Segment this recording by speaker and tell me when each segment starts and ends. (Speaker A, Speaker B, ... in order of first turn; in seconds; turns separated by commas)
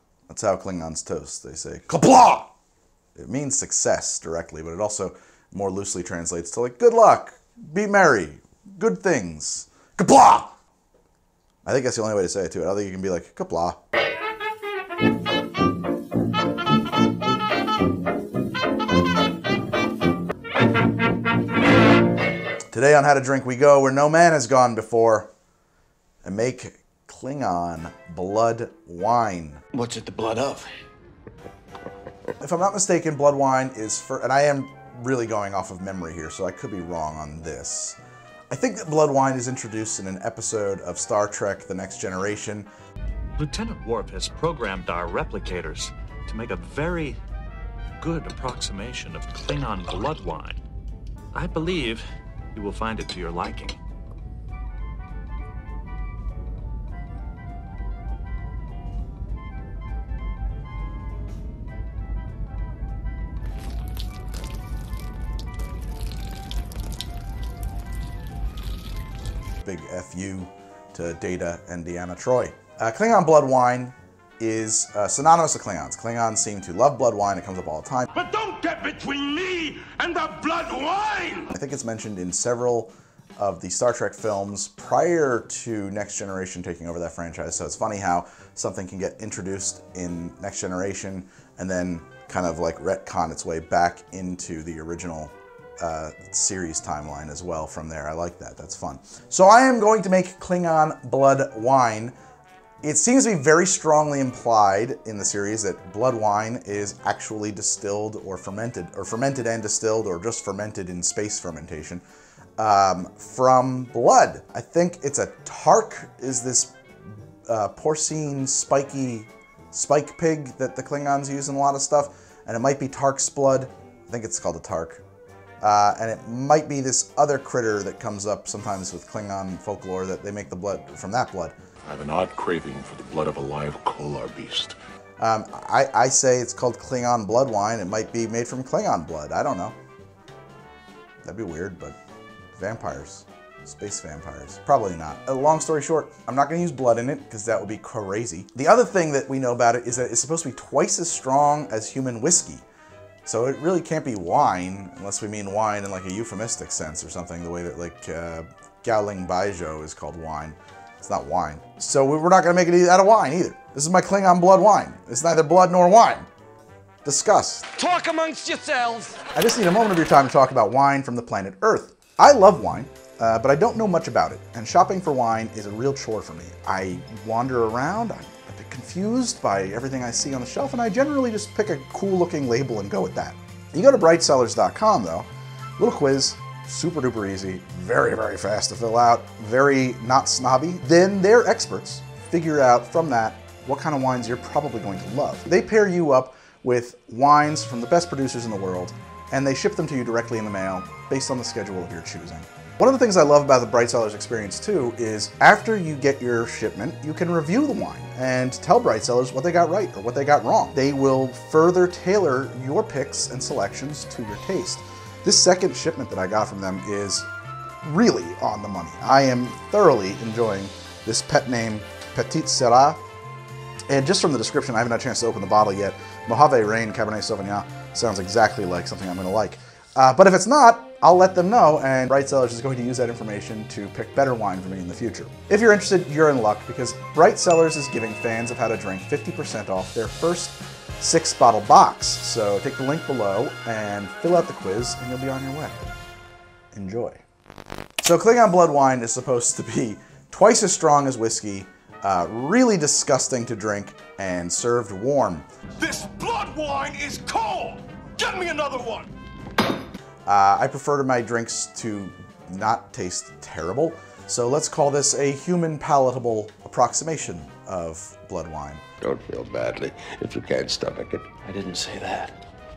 Speaker A: 0.3-2.5, Speaker A: 3.2-10.6, Speaker A: 11.7-13.8, Speaker A: 22.7-25.3, Speaker A: 26.2-29.6, Speaker B: 29.7-30.7, Speaker A: 32.4-38.0, Speaker A: 38.5-42.7, Speaker C: 43.4-47.2, Speaker C: 48.0-50.6, Speaker C: 51.3-53.8, Speaker A: 69.6-78.1, Speaker D: 78.1-81.5, Speaker A: 81.5-102.1, Speaker A: 102.8-112.0, Speaker A: 112.6-116.8, Speaker A: 117.5-125.0, Speaker A: 125.6-131.6, Speaker E: 131.9-134.8, Speaker A: 135.2-139.8, Speaker A: 141.2-142.0, Speaker A: 142.6-152.7, Speaker A: 153.2-166.3, Speaker A: 167.0-167.7, Speaker B: 167.8-169.2, Speaker A: 169.3-185.3, Speaker A: 185.8-217.3, Speaker A: 217.8-223.0, Speaker A: 223.9-245.9, Speaker A: 246.7-247.2, Speaker A: 248.0-255.5, Speaker D: 255.8-259.1, Speaker A: 260.3-268.8, Speaker F: 269.0-271.3, Speaker B: 271.4-272.4